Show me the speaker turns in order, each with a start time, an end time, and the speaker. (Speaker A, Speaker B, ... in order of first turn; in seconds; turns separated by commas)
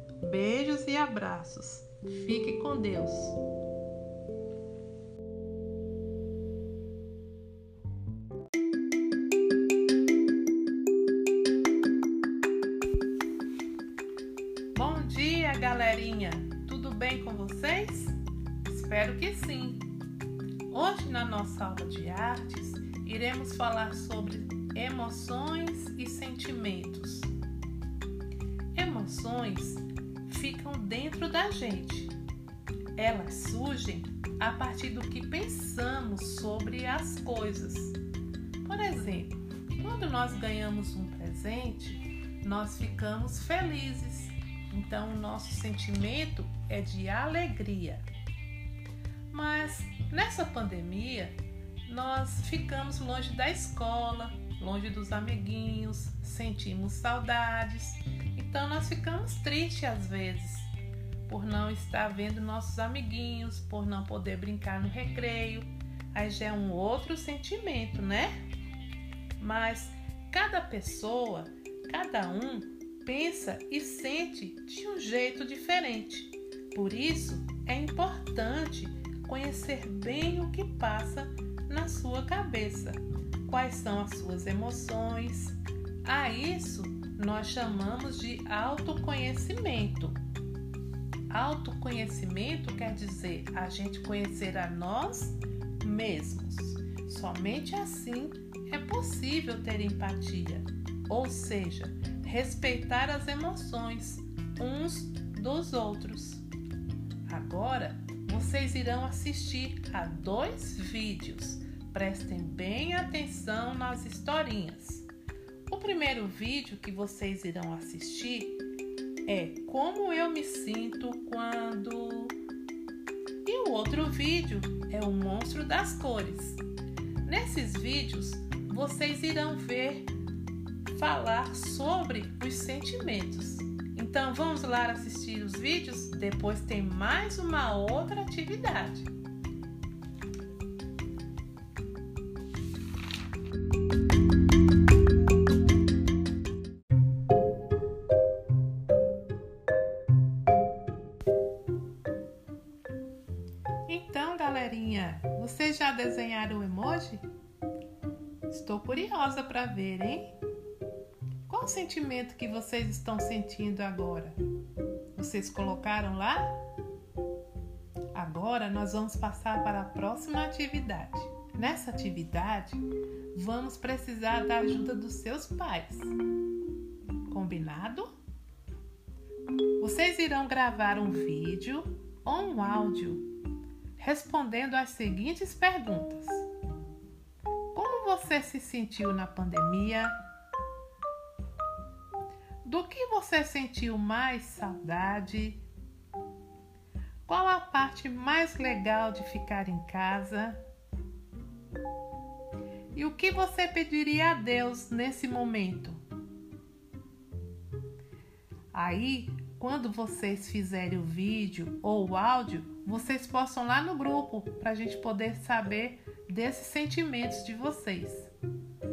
Speaker A: 0.2-3.4, Speaker A: 14.7-19.9, Speaker A: 20.7-27.3, Speaker A: 28.7-32.1, Speaker A: 32.9-38.0, Speaker A: 38.6-48.0, Speaker A: 49.3-60.7, Speaker A: 61.2-68.4, Speaker A: 69.4-90.2, Speaker A: 91.3-106.4, Speaker A: 107.2-115.1, Speaker A: 115.7-118.6, Speaker A: 119.2-122.3, Speaker A: 123.4-126.6, Speaker A: 127.2-130.1, Speaker A: 130.9-139.1, Speaker A: 153.9-157.2, Speaker A: 158.5-160.3, Speaker A: 161.5-164.4, Speaker A: 165.1-166.6, Speaker A: 168.1-176.1, Speaker A: 177.3-178.1, Speaker A: 179.8-183.3, Speaker A: 184.0-186.4, Speaker A: 187.7-190.2, Speaker A: 192.6-195.6, Speaker A: 197.3-200.6, Speaker A: 202.9-206.0, Speaker A: 208.7-218.3